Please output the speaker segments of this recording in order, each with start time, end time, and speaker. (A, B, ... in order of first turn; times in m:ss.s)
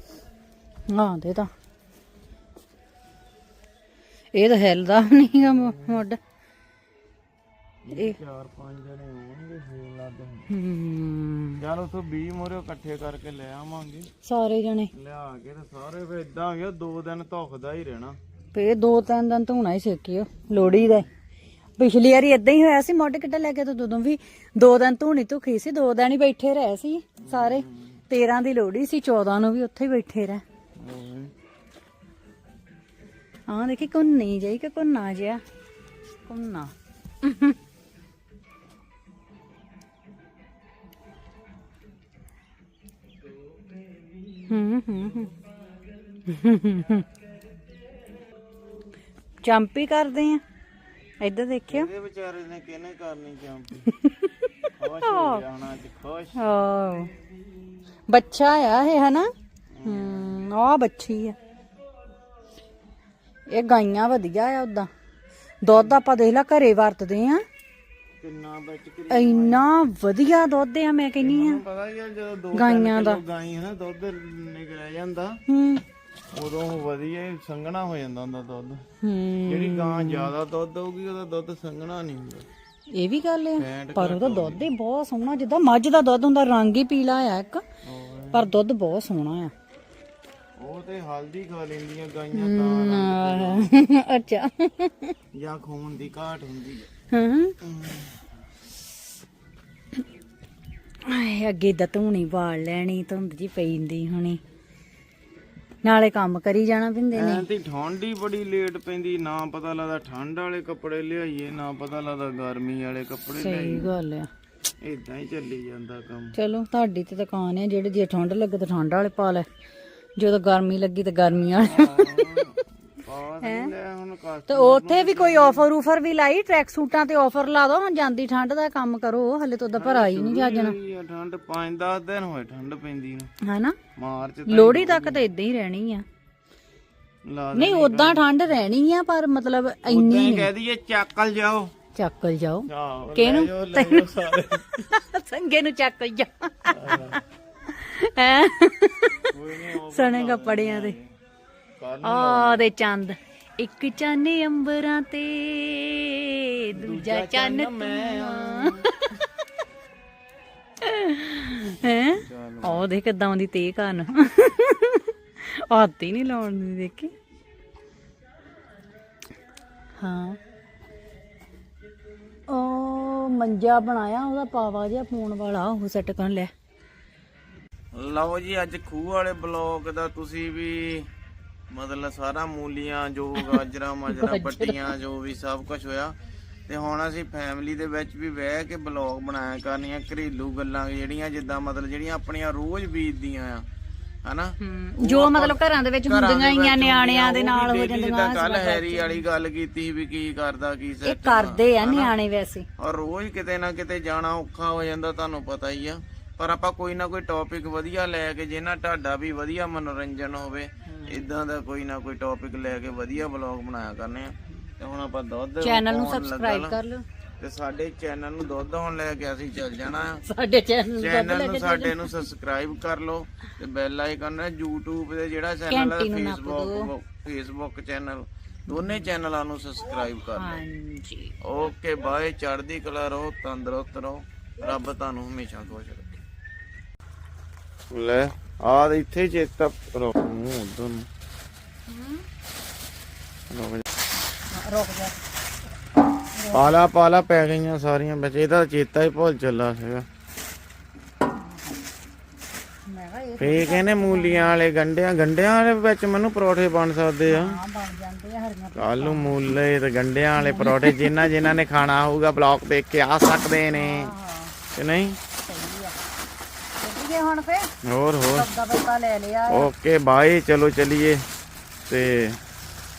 0:00.9-0:01.5 A
0:04.3-0:06.2 A
0:05.1-0:06.0 B
0:07.8-0:10.5 B
0:10.5-0:11.6 A
0:11.6-0:14.1 B
0:14.2-0:14.9 A
0:14.9-0:18.2 B
0:18.5-0:21.1 A
0:20.5-0:21.1 B
0:21.8-0:30.4 A
0:27.2-0:28.0 B
0:30.8-0:31.3 B
0:33.5-0:35.4 A
0:36.3-0:37.6 A
0:44.5-0:45.3 A
0:46.3-0:47.1 A
0:49.4-0:50.4 A
0:51.2-0:51.9 A
0:51.7-0:53.9 B
0:53.9-0:54.5 A
0:54.7-0:56.4 B
0:55.0-0:55.4 A
0:56.4-0:57.1 A
0:58.1-0:59.3 A
0:59.7-1:00.4 B
0:59.8-1:01.4 A
1:03.5-1:04.9 A
1:05.6-1:07.4 A
1:05.7-1:06.0 B
1:08.2-1:09.7 B
1:09.1-1:11.6 A
1:11.2-1:15.4 B
1:12.5-1:13.2 A
1:15.5-1:15.8 A
1:16.3-1:18.8 B
1:19.0-1:20.3 A
1:19.5-1:22.5 B
1:22.9-1:27.6 A
1:23.6-1:24.7 B
1:27.8-1:28.5 B
1:28.3-1:29.5 A
1:30.6-1:33.7 B
1:32.3-1:35.2 A
1:35.3-1:36.9 B
1:37.1-1:37.6 A
1:37.6-1:38.2 B
1:41.0-1:44.4 A
1:45.8-1:47.5 A
1:47.1-1:53.9 B
1:53.4-1:54.3 A
1:54.8-1:56.4 B
1:56.4-1:59.5 A
2:00.2-2:02.4 A
2:01.6-2:05.7 B
2:03.4-2:03.7 A
2:04.5-2:10.8 A
2:09.7-2:13.3 B
2:13.4-2:13.8 A
2:14.0-2:15.2 B
2:14.5-2:16.1 A
2:17.3-2:18.3 B
2:17.5-2:20.5 A
2:19.9-2:21.7 B
2:22.0-2:24.1 A
2:22.7-2:24.8 B
2:24.8-2:31.0 A
2:26.7-2:27.2 B
2:29.3-2:31.1 B
2:31.8-2:32.7 B
2:32.0-2:38.8 A
2:36.7-2:38.9 B
2:40.8-2:47.1 A
2:41.8-2:42.9 B
2:50.0-2:50.4 A
2:52.5-2:56.5 A
2:57.9-3:01.1 B
3:01.7-3:06.2 B
3:03.4-3:04.9 A
3:06.7-3:13.7 B
3:14.2-3:22.1 B
3:14.6-3:19.2 A
3:21.0-3:22.7 A
3:22.8-3:36.8 B
3:30.8-3:31.2 A
3:35.6-3:37.0 A
3:37.4-3:40.2 B
3:40.2-3:42.2 A
3:40.9-3:50.6 B
3:45.7-3:46.9 A
3:48.7-3:49.0 A
3:50.0-3:51.4 A
3:51.4-3:56.1 B
3:57.9-4:01.1 B
4:01.9-4:02.2 A
4:03.5-4:03.8 B
4:04.5-4:05.2 A
4:06.3-4:06.8 A
4:06.5-4:10.1 B
4:11.3-4:11.8 A
4:12.9-4:14.6 A
4:13.4-4:17.6 B
4:17.3-4:19.5 A
4:18.8-4:24.1 B
4:20.4-4:21.2 A
4:23.7-4:24.6 A
4:24.8-4:25.2 B
4:25.4-4:26.0 A
4:26.8-4:27.7 A
4:27.8-4:28.5 B
4:28.3-4:29.7 A
4:29.5-4:31.2 B
4:31.9-4:32.4 B